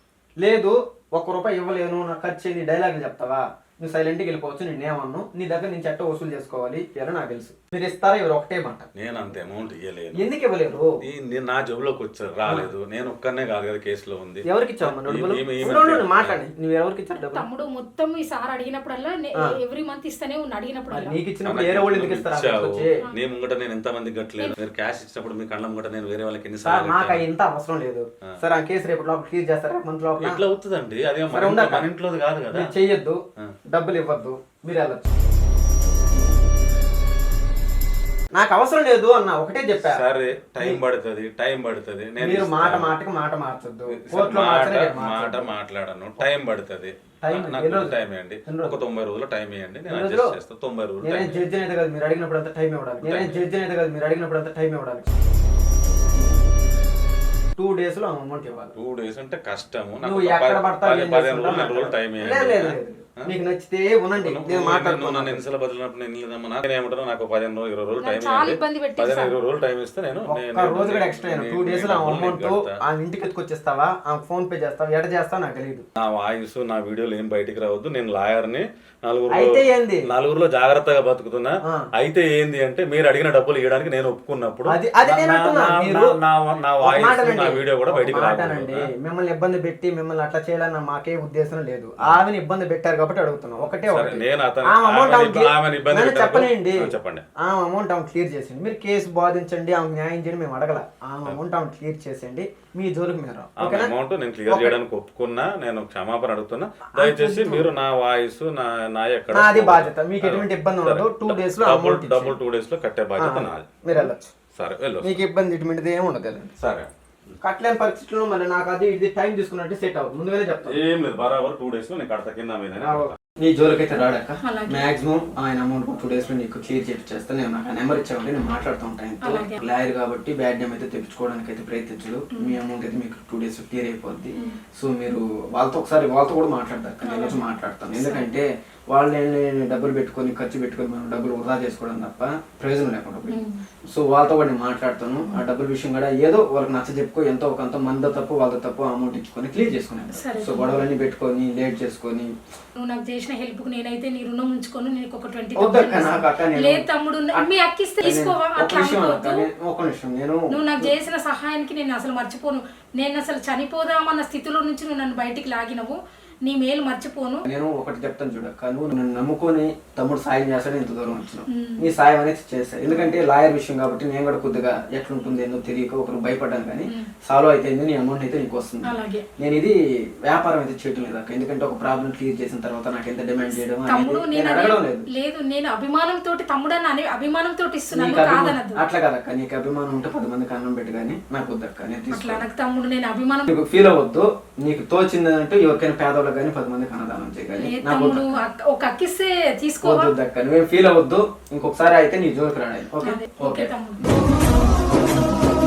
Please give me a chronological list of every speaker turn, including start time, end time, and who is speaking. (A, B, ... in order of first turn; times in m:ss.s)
0:00.4-0:08.9 A
0:08.9-0:10.2 B
0:10.1-0:11.0 A
0:11.0-0:16.4 B
0:14.4-0:17.4 A
0:17.2-0:21.1 C
0:20.9-0:23.0 A
0:21.4-0:27.2 B
0:26.6-0:30.4 A
0:30.2-0:32.7 B
0:31.3-0:31.9 A
0:32.5-0:33.2 A
0:33.7-0:35.1 A
0:38.3-0:40.0 A
0:39.8-0:43.0 B
0:42.2-0:45.5 A
0:43.9-0:51.4 B
0:47.2-0:48.8 A
0:49.9-0:50.3 A
0:51.0-0:55.1 A
0:53.0-0:53.5 B
0:57.6-0:58.7 A
0:58.8-1:02.8 B
1:00.0-1:05.4 A
1:04.2-1:12.7 B
1:08.0-1:09.3 C
1:10.3-1:15.8 A
1:16.0-1:28.9 B
1:19.3-1:20.1 A
1:24.7-1:26.1 A
1:26.8-1:43.9 A
1:33.8-1:37.2 B
1:43.6-1:55.2 B
1:44.5-1:44.8 A
1:47.0-1:47.7 A
1:49.3-1:52.4 A
1:53.2-1:54.3 A
1:55.0-1:56.5 A
1:56.6-1:56.9 B
1:57.4-2:00.8 A
2:00.6-2:03.1 B
2:02.8-2:23.4 A
2:04.4-2:04.9 C
2:09.2-2:09.6 C
2:12.3-2:12.6 C
2:17.0-2:17.4 C
2:18.0-2:18.3 C
2:23.3-2:23.6 C
2:23.9-2:32.3 A
2:30.1-2:30.7 C
2:32.8-2:39.4 C
2:35.6-2:37.4 A
2:38.0-2:41.0 A
2:40.5-2:47.4 C
2:47.4-2:59.7 A
2:51.5-2:51.9 C
2:52.9-2:53.2 C
2:58.8-2:59.2 C
3:00.2-3:05.1 A
3:03.4-3:08.8 C
3:07.9-3:12.4 A
3:12.1-3:13.5 C
3:13.5-3:18.3 A
3:17.6-3:20.1 C
3:19.8-3:23.7 A
3:23.0-3:24.0 C